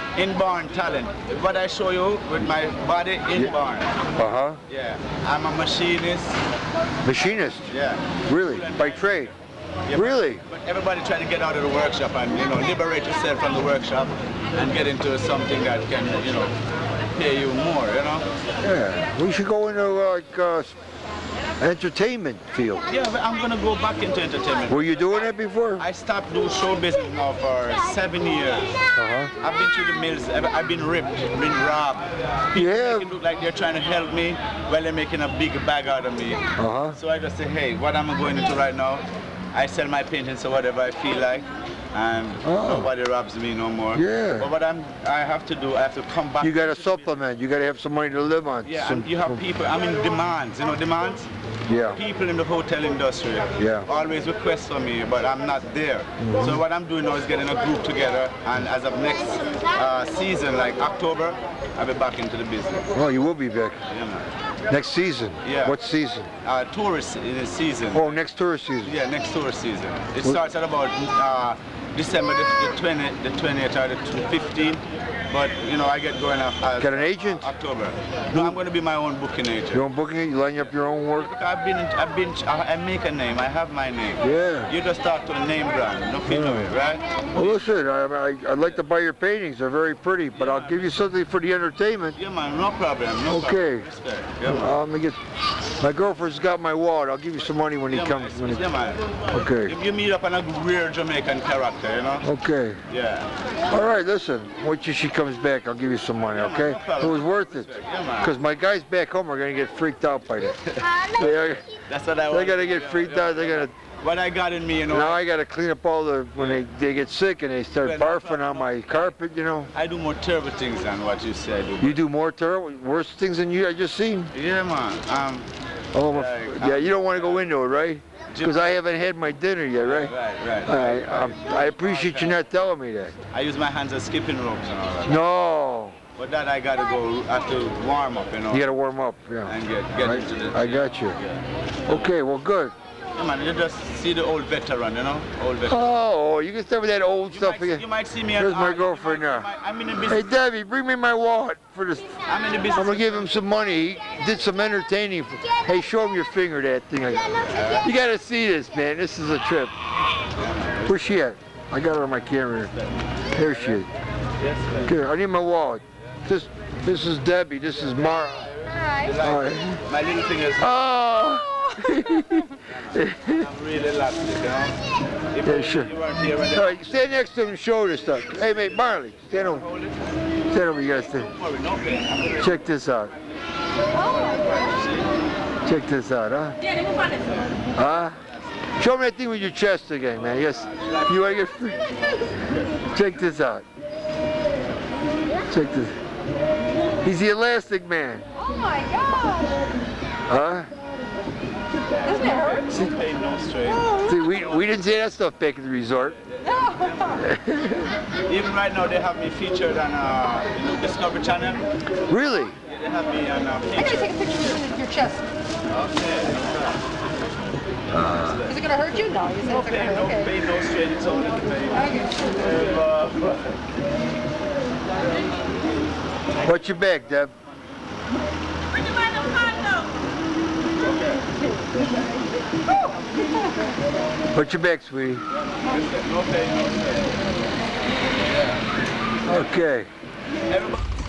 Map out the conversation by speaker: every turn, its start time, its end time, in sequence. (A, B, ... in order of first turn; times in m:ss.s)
0:00.1-0:04.0 A
0:04.2-0:04.6 B
0:04.7-0:06.4 A
0:07.0-0:07.7 B
0:07.7-0:09.2 A
0:08.3-0:09.3 B
0:09.9-0:16.5 A
0:09.9-0:10.4 B
0:17.1-0:18.3 A
0:18.6-0:20.7 B
0:21.6-0:22.8 B
0:22.9-0:24.9 A
0:24.7-0:25.8 B
0:25.8-0:28.7 A
0:29.0-0:29.3 B
0:29.4-0:47.1 A
0:32.5-0:33.1 B
0:36.6-0:36.9 B
0:42.4-0:42.9 B
0:43.9-0:44.5 B
0:46.4-0:49.4 B
0:48.6-0:51.3 A
0:51.7-0:52.0 B
0:51.9-1:02.8 A
0:53.6-0:53.9 B
0:56.2-0:56.6 B
1:02.9-1:03.8 B
1:03.9-1:04.3 A
1:04.7-1:06.3 B
1:05.4-1:05.8 A
1:06.4-1:08.2 A
1:07.9-1:09.0 B
1:08.8-1:19.8 A
1:16.8-1:17.5 B
1:18.3-1:18.6 B
1:19.7-1:21.3 B
1:21.2-1:27.6 A
1:24.2-1:24.7 B
1:26.3-1:26.7 B
1:27.3-1:32.2 B
1:30.4-1:31.1 A
1:32.1-1:34.7 A
1:33.2-1:33.9 B
1:34.4-1:35.2 B
1:35.8-1:38.6 B
1:37.9-1:42.3 A
1:39.3-1:39.7 B
1:42.2-1:42.8 B
1:42.9-1:43.3 A
1:43.7-1:50.6 B
1:46.3-1:48.3 A
1:50.7-1:55.2 A
1:51.1-1:51.6 B
1:52.3-1:53.7 B
1:54.9-1:59.7 B
1:56.4-1:56.6 A
1:57.8-1:59.0 A
1:59.7-2:02.0 A
2:01.8-2:04.3 B
2:04.3-2:05.5 A
2:05.9-2:10.1 B
2:06.1-2:07.4 A
2:08.3-2:08.7 A
2:09.8-2:12.4 A
2:10.6-2:13.1 B
2:13.3-2:15.2 A
2:15.0-2:16.0 B
2:16.2-2:18.7 A
2:18.5-2:21.2 B
2:19.4-2:22.1 A
2:21.8-2:22.7 B
2:23.1-2:25.8 A
2:25.7-2:29.5 B
2:27.3-2:30.3 A
2:30.0-2:39.7 B
2:32.2-2:33.3 A
2:37.3-2:37.9 A
2:40.4-2:41.2 A
2:40.9-2:42.7 B
2:43.3-2:43.9 B
2:43.4-2:43.8 A
2:44.4-2:45.0 A
2:44.8-2:48.5 B
2:48.1-2:50.9 A
2:49.1-2:49.8 B
2:50.6-2:53.4 B
2:52.7-2:54.8 A
2:55.3-2:56.9 A
2:55.4-2:55.9 B
2:56.5-2:59.6 B
2:59.3-3:00.0 A
3:00.5-3:01.3 B
3:01.0-3:02.7 A
3:02.4-3:03.1 B
3:04.0-3:05.1 A
3:05.6-3:06.6 B
3:07.1-3:07.7 A
3:07.8-3:08.2 B
3:08.8-3:11.8 B
3:10.4-3:11.4 A
3:12.2-3:12.7 A
3:12.9-3:13.6 B
3:15.5-3:15.9 B
3:17.0-3:18.2 B
3:18.4-3:19.6 C
3:20.3-3:20.7 B
3:22.0-3:24.0 A
3:22.0-3:22.7 C
3:23.8-3:24.2 C
3:24.0-3:26.2 B
3:26.2-3:27.3 A
3:27.1-3:27.9 B
3:28.2-3:31.7 A
3:32.1-3:32.6 B
3:32.6-3:34.1 A
3:33.8-3:35.2 C
3:35.7-3:36.8 A
3:37.9-3:38.5 B
3:38.0-3:38.6 A
3:38.4-3:40.3 C
3:39.4-3:43.6 A
3:41.8-3:42.2 C
3:46.4-3:47.3 B
3:50.8-3:51.2 A
3:54.3-3:55.2 B
3:55.4-3:57.2 A
3:58.3-3:58.6 A
3:59.2-3:59.9 B
4:00.5-4:00.8 A